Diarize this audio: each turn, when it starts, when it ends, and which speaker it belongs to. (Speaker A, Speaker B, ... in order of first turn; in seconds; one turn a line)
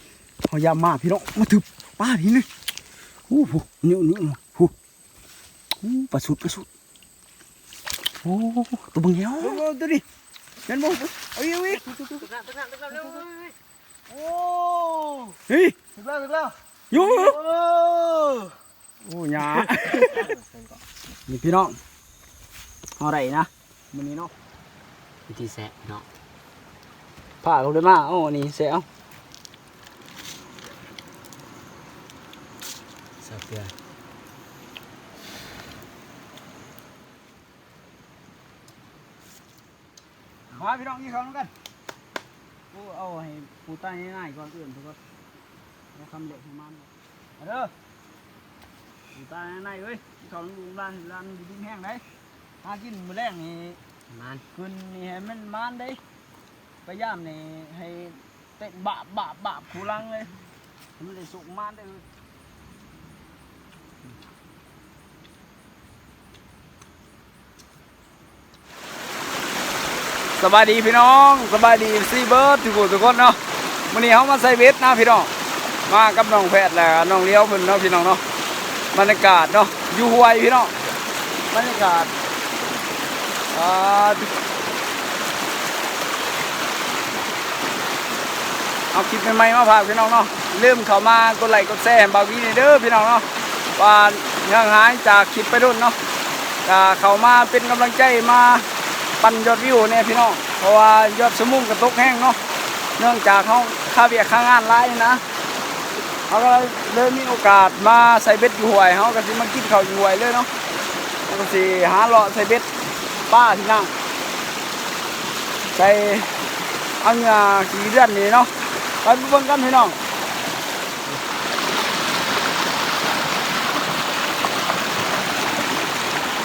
Speaker A: 0.5-2.5
Speaker A: 3.3-4.7
Speaker A: 5.8-6.7
Speaker A: 8.2-10.0
Speaker A: 10.7-11.8
Speaker B: 11.7-13.5
Speaker C: 12.9-13.2
Speaker C: 14.1-15.4
Speaker A: 15.5-15.7
Speaker C: 15.9-18.6
Speaker A: 16.9-17.4
Speaker A: 19.0-20.3
Speaker C: 19.5-20.8
Speaker A: 21.3-21.8
Speaker A: 23.0-24.3
Speaker B: 25.3-26.0
Speaker A: 27.4-28.9
Speaker B: 33.2-33.7
Speaker A: 40.6-41.5
Speaker A: 42.7-45.0
Speaker A: 45.9-47.7
Speaker A: 49.1-52.0
Speaker A: 52.6-53.8
Speaker B: 54.1-54.4
Speaker A: 54.5-56.0
Speaker A: 56.9-60.3
Speaker A: 61.0-62.0
Speaker A: 70.4-73.4
Speaker A: 73.9-75.3
Speaker A: 75.9-78.2
Speaker A: 78.9-80.8
Speaker A: 81.5-82.1
Speaker A: 83.5-84.3
Speaker A: 88.9-96.0
Speaker A: 96.6-98.7
Speaker A: 99.2-102.4
Speaker A: 103.0-105.2
Speaker A: 106.3-110.5
Speaker A: 111.3-112.7
Speaker A: 113.3-113.9
Speaker A: 115.7-116.3
Speaker A: 117.0-118.5
Speaker A: 119.0-120.0